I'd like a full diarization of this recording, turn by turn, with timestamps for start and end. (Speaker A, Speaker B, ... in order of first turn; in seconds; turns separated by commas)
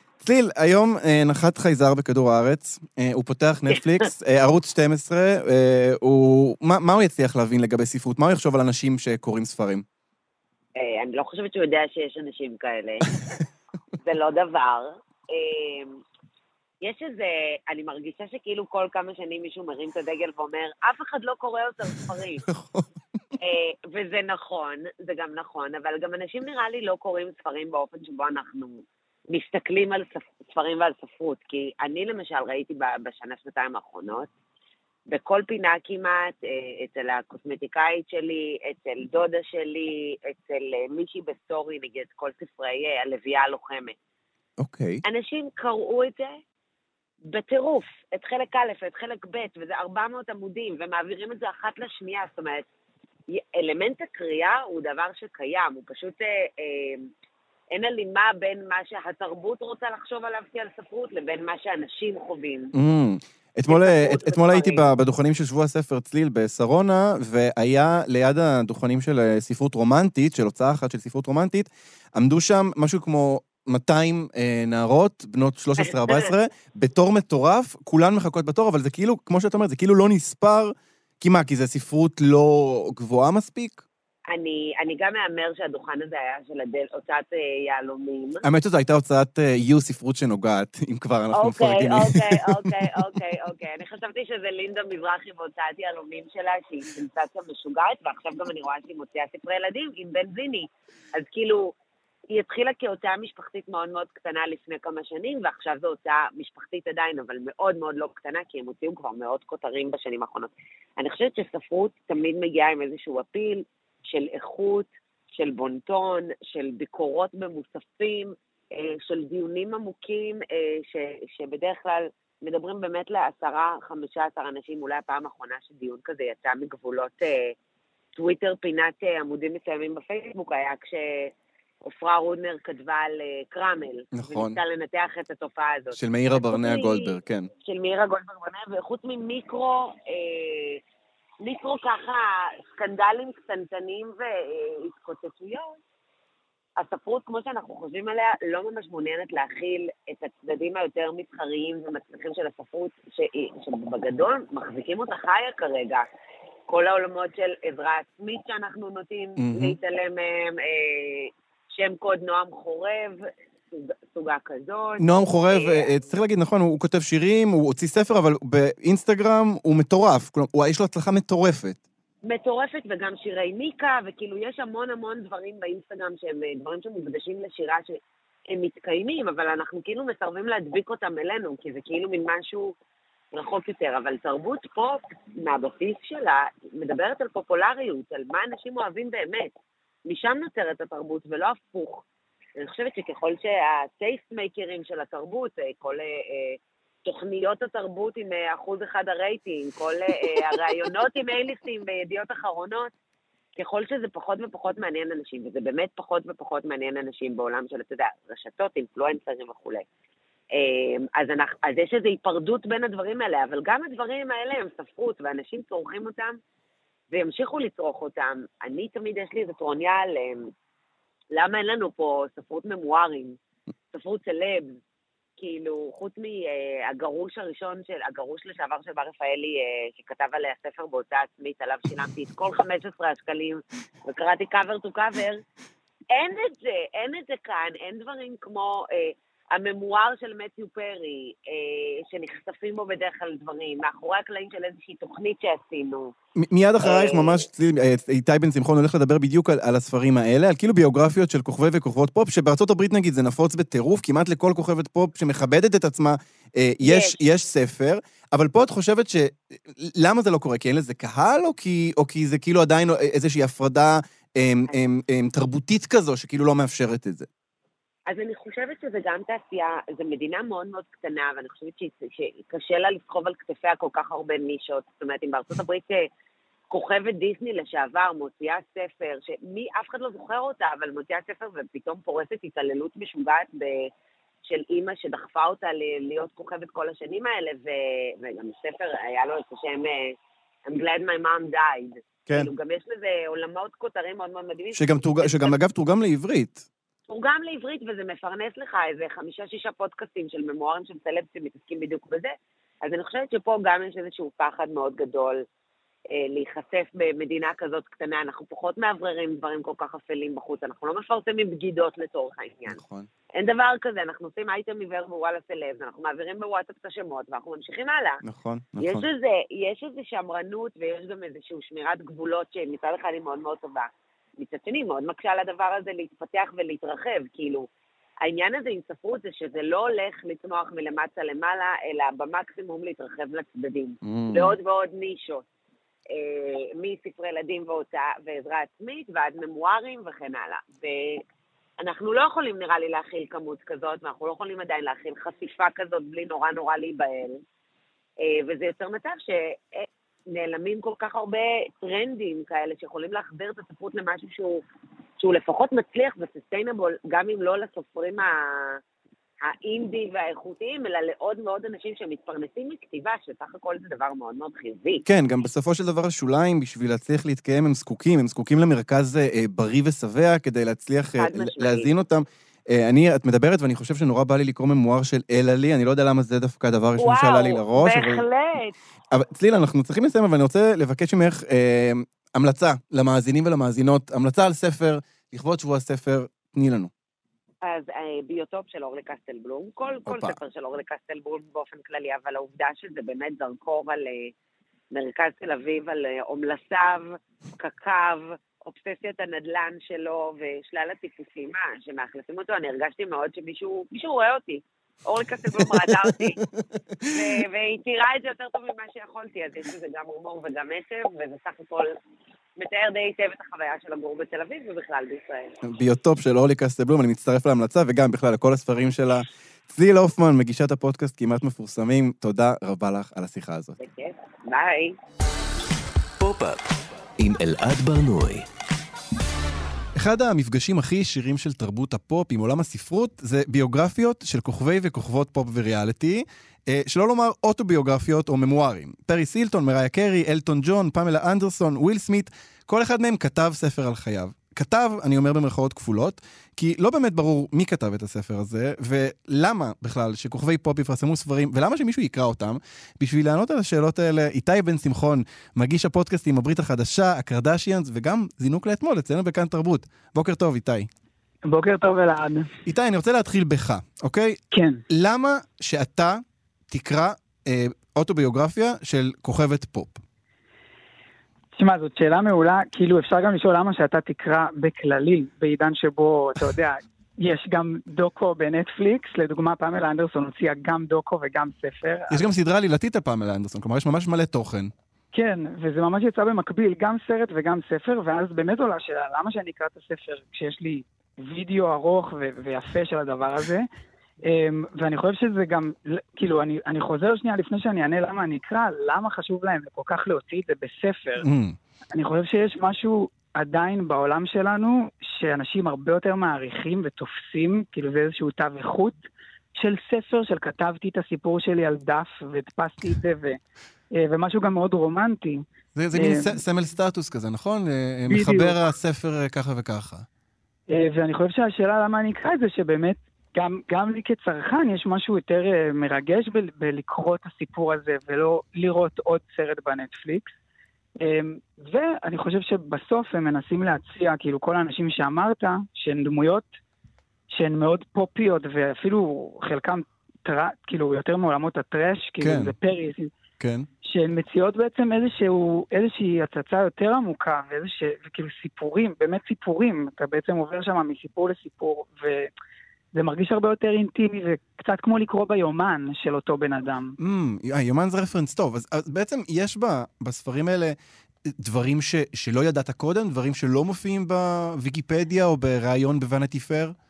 Speaker A: 0.2-9.8, Speaker B: 10.8-13.1, Speaker B: 14.0-16.0, Speaker B: 16.8-22.4, Speaker A: 22.5-22.8, Speaker B: 23.4-34.3, Speaker B: 35.1-44.0, Speaker A: 44.6-45.0, Speaker B: 45.0-46.4, Speaker B: 47.3-52.6, Speaker B: 53.3-57.1, Speaker B: 57.7-62.7, Speaker A: 62.7-83.8, Speaker B: 63.7-64.8, Speaker B: 75.8-76.3, Speaker B: 84.3-88.4, Speaker A: 88.4-92.7, Speaker B: 91.3-101.7, Speaker B: 102.3-127.5, Speaker B: 128.2-131.3, Speaker B: 131.8-140.8, Speaker A: 134.1-134.6, Speaker A: 135.9-137.5, Speaker B: 141.4-145.8, Speaker B: 146.8-156.1, Speaker B: 156.7-165.9, Speaker A: 159.4-159.8, Speaker A: 165.0-171.8, Speaker B: 172.2-182.7, Speaker B: 183.3-189.5, Speaker B: 190.1-192.0, Speaker B: 192.6-202.9, Speaker B: 203.6-209.8, Speaker B: 210.5-216.4, Speaker B: 217.1-220.5, Speaker B: 221.3-223.4, Speaker B: 223.9-224.8, Speaker B: 225.4-235.4, Speaker B: 236.1-246.1, Speaker A: 246.4-267.3, Speaker B: 246.8-247.4, Speaker B: 256.8-257.2, Speaker B: 268.1-276.1, Speaker B: 276.7-283.9, Speaker B: 284.4-295.6, Speaker A: 294.7-296.6, Speaker B: 297.1-305.4, Speaker B: 306.1-312.8, Speaker A: 312.7-313.1, Speaker B: 313.3-318.2, Speaker A: 318.2-319.1, Speaker B: 318.8-327.7, Speaker B: 328.2-335.4, Speaker A: 334.0-334.6, Speaker B: 336.1-341.2, Speaker B: 341.8-347.4, Speaker B: 348.2-354.6, Speaker B: 355.2-358.8, Speaker B: 359.4-365.0, Speaker A: 365.0-378.2, Speaker B: 371.2-371.9, Speaker B: 377.0-378.7, Speaker A: 379.1-386.9, Speaker B: 387.6-394.3, Speaker A: 390.1-390.4, Speaker B: 394.9-406.4, Speaker A: 405.6-406.4, Speaker B: 407.1-411.9, Speaker B: 412.6-415.6, Speaker A: 415.6-423.8, Speaker B: 423.8-424.9, Speaker C: 426.2-428.4, Speaker A: 430.0-460.9, Speaker D: 461.5-462.5, Speaker A: 462.6-470.0, Speaker D: 464.5-464.8, Speaker D: 471.5-482.2, Speaker A: 482.1-484.7, Speaker D: 485.1-493.7, Speaker D: 494.2-501.3, Speaker A: 501.2-501.6, Speaker D: 501.9-509.0, Speaker D: 509.6-513.4, Speaker D: 514.0-516.4, Speaker A: 515.8-520.0, Speaker D: 518.1-518.6, Speaker D: 520.7-530.3, Speaker D: 531.0-536.5, Speaker D: 537.3-543.1, Speaker A: 542.2-542.5, Speaker A: 543.4-543.7, Speaker D: 543.8-552.3, Speaker D: 552.9-556.9, Speaker A: 557.0-560.8, Speaker A: 561.3-566.7